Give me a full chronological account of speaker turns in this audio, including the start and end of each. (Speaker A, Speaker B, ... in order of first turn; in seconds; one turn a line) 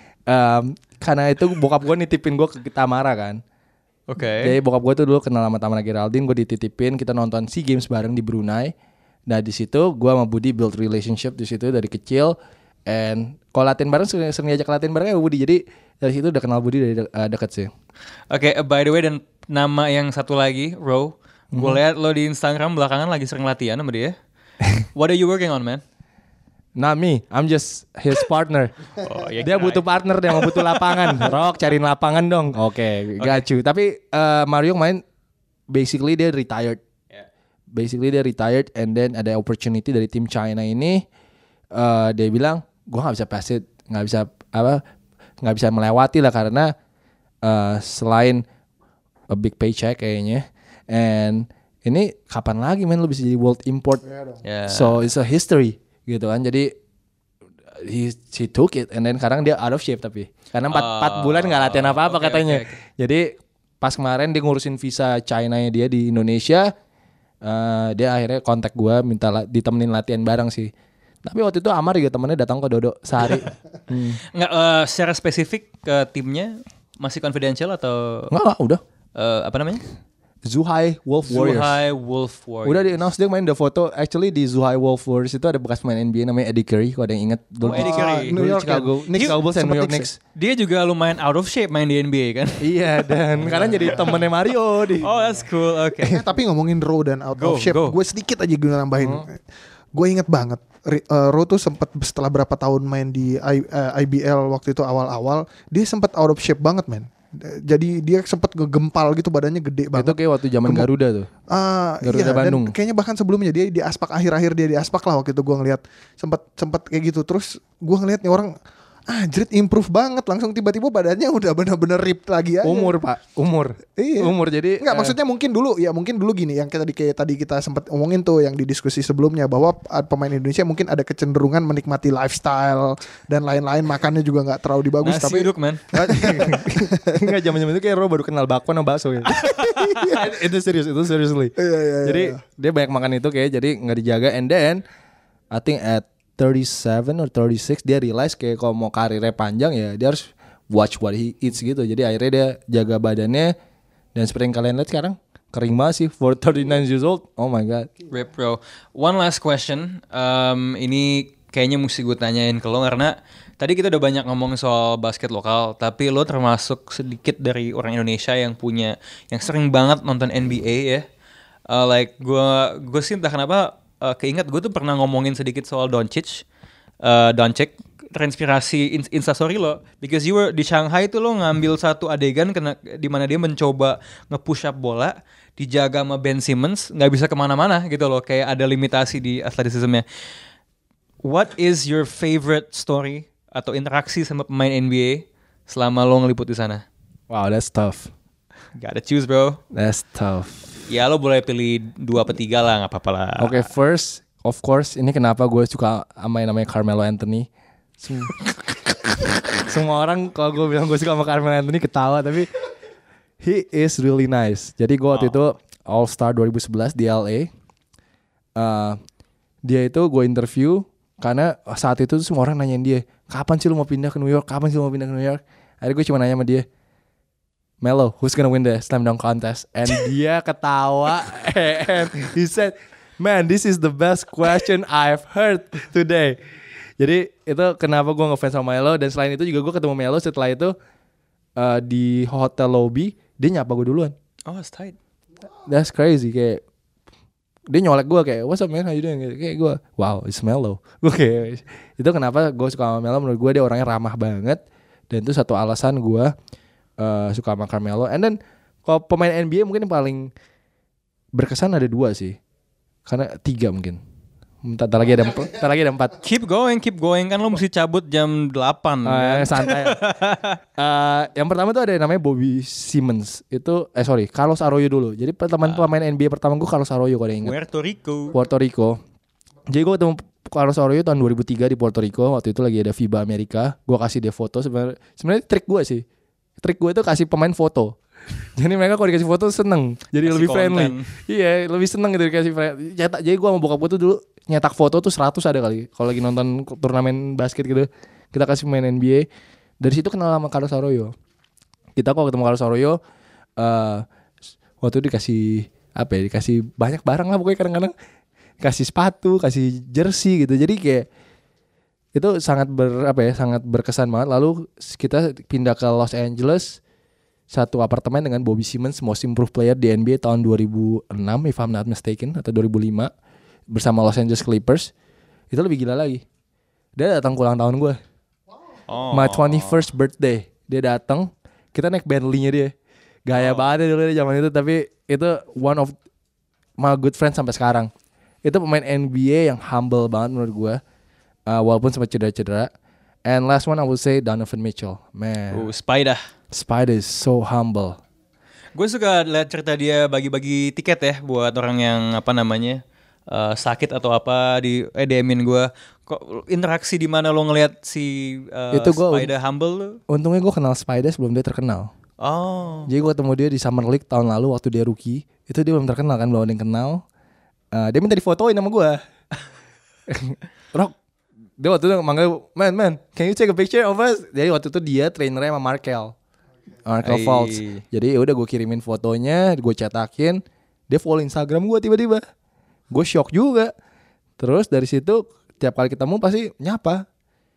Speaker A: 0.3-3.4
Speaker B: 4.1-4.6
Speaker A: 4.4-8.7
Speaker A: 9.3-12.4
Speaker A: 12.9-17.7
Speaker B: 18.3-24.1
Speaker A: 21.5-21.8
Speaker B: 24.9-25.8
Speaker A: 26.8-28.9
Speaker B: 29.0-31.3
Speaker A: 29.4-35.0
Speaker B: 33.2-33.5
Speaker A: 35.7-36.8
Speaker A: 37.7-41.0
Speaker A: 41.7-44.8
Speaker A: 45.4-46.7
Speaker A: 47.4-48.4
Speaker A: 49.3-54.0
Speaker C: 54.1-54.4
Speaker B: 54.4-55.0
Speaker A: 54.7-56.7
Speaker A: 57.7-63.3
Speaker B: 60.7-62.8
Speaker A: 63.8-66.7
Speaker A: 67.4-70.7
Speaker A: 71.2-74.2
Speaker B: 74.3-78.3
Speaker A: 78.3-78.8
Speaker B: 79.2-79.8
Speaker A: 80.5-81.8
Speaker B: 81.3-83.0
Speaker A: 82.6-90.2
Speaker B: 87.7-88.4
Speaker C: 87.7-90.1
Speaker B: 89.2-89.4
Speaker B: 90.3-94.1
Speaker A: 92.6-95.1
Speaker C: 93.5-94.2
Speaker B: 95.0-96.3
Speaker C: 96.0-99.4
Speaker B: 97.4-97.9
Speaker A: 99.0-99.2
Speaker C: 99.9-110.9
Speaker A: 109.9-111.3
Speaker C: 111.5-118.5
Speaker A: 112.0-112.7
Speaker C: 119.1-123.0
Speaker A: 122.6-125.2
Speaker C: 124.0-137.3
Speaker B: 135.0-135.8
Speaker A: 135.9-144.8
Speaker B: 139.4-140.0
Speaker C: 141.6-142.4
Speaker A: 145.5-153.5
Speaker A: 154.2-157.9
Speaker B: 158.1-171.1
Speaker B: 171.7-176.4
Speaker B: 177.0-190.1
Speaker B: 191.2-196.8
Speaker A: 197.3-198.1
Speaker B: 198.8-199.6
Speaker A: 199.7-200.8
Speaker B: 200.9-203.7
Speaker A: 203.4-207.5
Speaker A: 208.0-212.5
Speaker A: 213.4-217.5
Speaker B: 215.1-215.4
Speaker A: 218.6-219.0
Speaker A: 219.7-226.7
Speaker A: 227.8-236.4
Speaker A: 237.0-240.7
Speaker A: 241.6-244.1
Speaker B: 244.5-245.0
Speaker A: 245.6-246.6
Speaker A: 247.7-256.3
Speaker A: 257.0-260.3
Speaker A: 261.4-262.4
Speaker A: 263.1-264.0
Speaker A: 264.6-266.2
Speaker B: 266.2-270.6
Speaker A: 269.0-270.0
Speaker A: 270.8-277.5
Speaker B: 277.4-278.4
Speaker A: 278.3-279.0
Speaker A: 279.7-286.0
Speaker A: 286.6-288.0
Speaker A: 288.6-299.3
Speaker B: 290.2-291.1
Speaker A: 299.8-301.1
Speaker A: 302.0-303.0
Speaker A: 303.6-304.0
Speaker A: 304.8-307.9
Speaker A: 308.6-311.1
Speaker A: 312.1-316.8
Speaker A: 317.5-323.1
Speaker A: 323.7-324.9
Speaker A: 325.5-326.2
Speaker A: 327.0-328.0
Speaker B: 328.9-329.9
Speaker A: 329.1-332.7
Speaker A: 333.3-335.9
Speaker B: 333.3-333.7
Speaker A: 336.8-337.9
Speaker A: 338.4-340.8
Speaker A: 341.5-342.7
Speaker A: 343.3-345.7
Speaker B: 345.5-346.3
Speaker A: 346.5-348.0
Speaker B: 348.7-360.0
Speaker A: 358.7-359.3
Speaker A: 360.1-361.9
Speaker B: 362.2-362.9
Speaker A: 362.9-367.0
Speaker A: 367.7-369.0
Speaker A: 370.1-370.9
Speaker A: 371.6-376.1
Speaker A: 376.9-382.2
Speaker B: 377.0-377.8
Speaker A: 382.9-383.7
Speaker A: 384.4-387.0